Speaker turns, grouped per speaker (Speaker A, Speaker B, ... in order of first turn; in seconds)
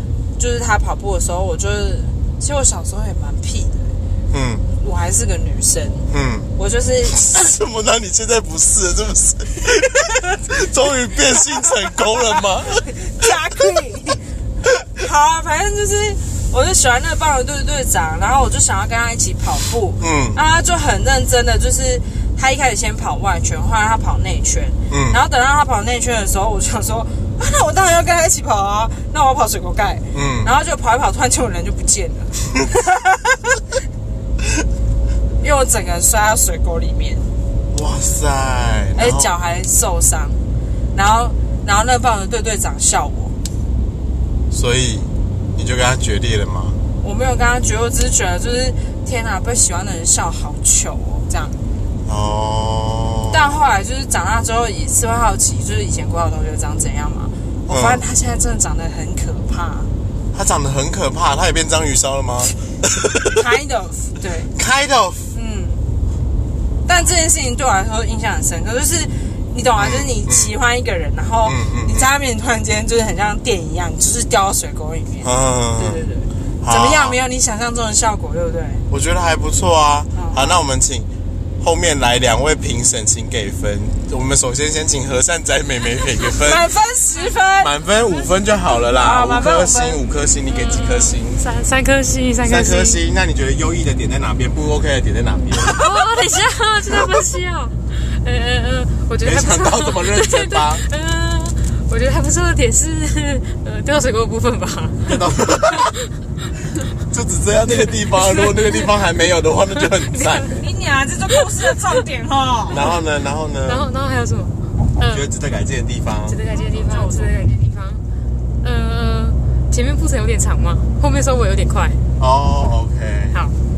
Speaker A: 0.4-3.9, 4.8-7.3, 12.9-14.2, 14.9-33.4, 35.4-37.3, 39.0-40.4, 40.9-43.4, 47.0-51.6, 53.3-59.9, 63.2-64.5, 65.3-65.8, 66.8-78.8, 80.2-80.6, 86.4-87.7, 89.0-90.0, 110.6-112.9, 116.5-117.3
Speaker B: 4.3-4.6, 6.1-6.5, 7.1-13.3, 20.0-20.4, 24.9-25.2, 30.1-30.5, 37.7-39.3, 44.5-46.8, 52.0-53.5, 57.7-58.0, 60.3-63.3, 64.5-65.3, 69.8-70.5, 71.4-72.1, 75.2-76.0, 76.6-77.2, 78.9-81.1, 81.6-86.7, 87.6-91.4, 92.4-96.0, 99.2-100.8, 105.1-105.9, 107.1-110.6, 112.7-113.9, 115.0-116.4, 122.2-123.4
Speaker C: 90.5-93.0, 95.6-106.1, 107.8-108.9, 109.8-110.5, 113.7-115.2, 116.2-118.0, 118.6-122.0